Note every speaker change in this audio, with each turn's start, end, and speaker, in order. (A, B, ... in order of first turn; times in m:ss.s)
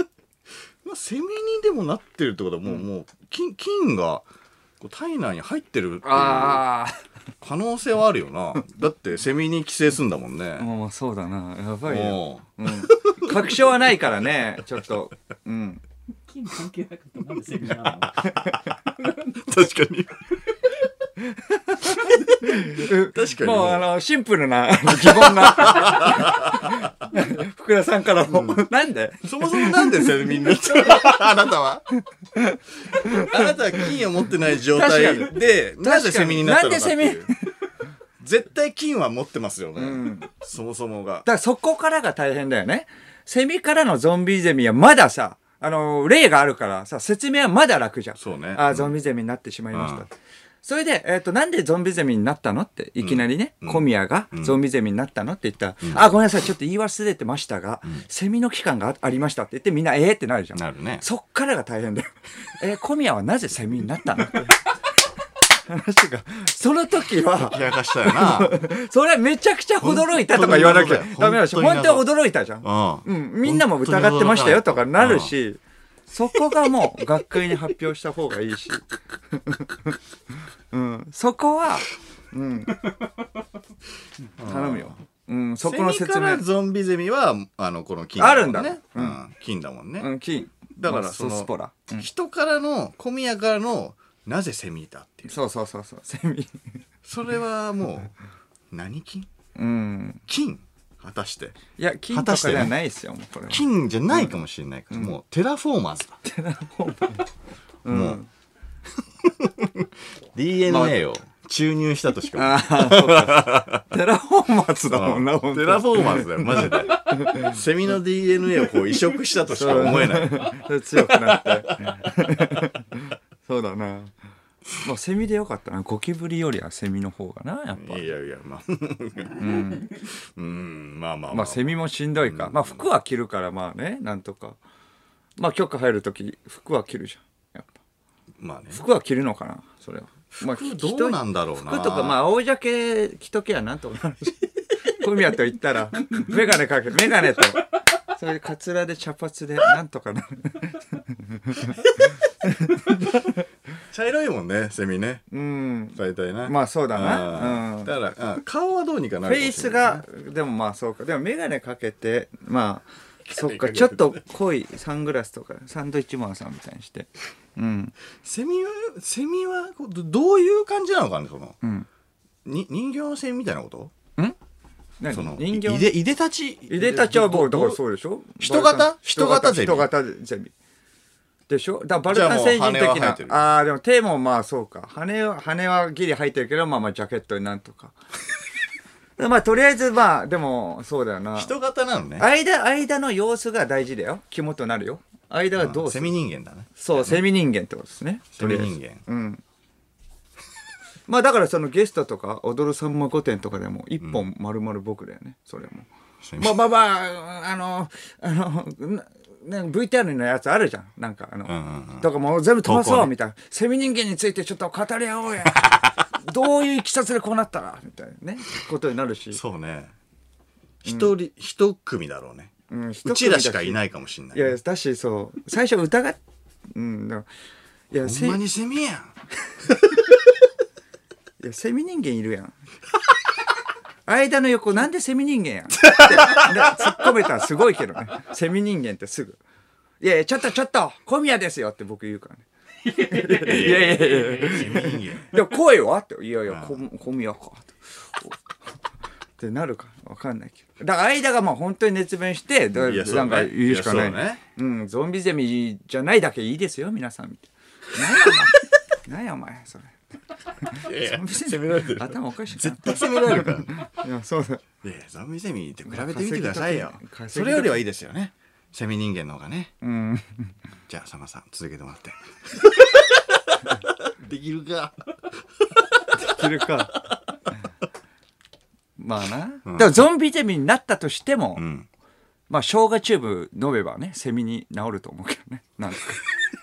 0:00.8-0:04.2 A
0:04.8-0:06.6 A
0:06.0-0:07.0 B
0:07.4-0:10.7 A
0:10.6-0:15.8 B
0:11.8-0:13.6 A
0:16.3-0:18.3 C
0:18.2-0:18.5 A
0:19.0-0:19.3 C
0:19.3-0:20.2 A
0:21.8-0:31.2 B
0:21.8-0:23.9 A
0:24.9-0:26.9 A
0:28.3-0:28.6 A
0:29.2-0:31.8 A
0:32.3-0:33.5 B
0:33.0-0:37.3 A
0:34.6-0:37.4 B
0:38.2-0:41.3 A
0:39.8-0:40.3 B
0:41.2-0:50.1 B
0:48.2-0:49.0 A
0:49.7-0:50.0 A
0:50.6-1:04.7 B
0:53.0-0:54.6 A
1:00.5-1:01.0 A
1:05.5-1:20.0 B
1:07.4-1:08.6 A
1:09.8-1:12.1 A
1:12.6-1:15.3 A
1:20.7-1:22.8 B
1:24.4-1:25.0 A
1:24.4-1:26.4 B
1:25.6-1:30.1 A
1:28.2-1:29.2 B
1:30.0-1:32.1 B
1:30.8-1:35.3 A
1:35.3-1:36.6 B
1:37.0-1:38.1 A
1:38.7-1:39.3 A
1:39.5-1:40.2 B
1:40.3-1:41.6 A
1:41.8-1:44.4 B
1:42.1-1:42.7 A
1:43.5-1:46.2 A
1:44.9-1:45.2 B
1:46.2-1:47.3 B
1:47.8-1:48.3 B
1:47.9-1:48.2 A
1:49.2-1:53.8 A
1:50.7-1:51.0 B
1:52.3-1:57.6 B
1:54.9-2:00.6 A
1:59.5-2:04.1 B
2:01.3-2:01.9 A
2:04.8-2:08.1 B
2:07.7-2:12.8 A
2:09.4-2:09.9 B
2:11.3-2:14.6 B
2:15.4-2:17.8 B
2:18.4-2:18.8 A
2:18.7-2:33.4 B
2:20.4-2:22.2 A
2:33.9-2:35.2 A
2:35.3-2:37.9 B
2:35.9-2:40.0 A
2:39.2-2:47.9 B
2:43.3-2:44.2 A
2:48.2-2:51.6 A
2:51.6-2:51.9 B
2:52.4-2:53.9 A
2:55.0-2:55.9 B
2:55.1-2:57.8 A
2:56.7-3:00.5 B
2:58.4-2:59.9 A
3:01.5-3:07.9 B
3:02.1-3:03.5 A
3:09.2-3:11.5 B
3:11.4-3:12.3 A
3:12.2-3:16.1 B
3:15.6-3:17.2 A
3:16.8-3:19.4 B
3:18.4-3:19.0 A
3:21.1-3:25.9 B
3:26.2-3:26.6 A
3:26.4-3:39.4 B
3:31.5-3:32.1 A
3:32.6-3:33.1 A
3:35.5-3:35.9 A
3:39.3-3:39.9 A
3:40.8-3:42.5 A
3:40.8-3:41.1 B
3:42.7-3:43.8 B
3:43.0-3:44.5 A
3:44.3-3:46.2 B
3:46.7-3:47.3 B
3:47.9-3:48.4 B
3:48.0-3:49.1 A
3:51.4-3:52.5 B
3:54.0-3:59.4 B
4:00.0-4:08.4 B
4:03.3-4:05.3 A
4:06.5-4:06.8 A
4:09.4-4:20.0 B
4:12.7-4:14.4 A
4:20.6-4:24.6 B
4:20.7-4:23.8 A
4:24.8-4:29.7 A
4:25.9-4:27.8 B
4:29.8-4:30.5 B
4:30.9-4:34.9 A
4:36.0-4:36.4 A
4:36.2-4:36.9 B
4:39.0-4:41.6 B
4:39.6-4:40.0 A
4:41.6-4:41.9 A
4:42.5-4:46.2 B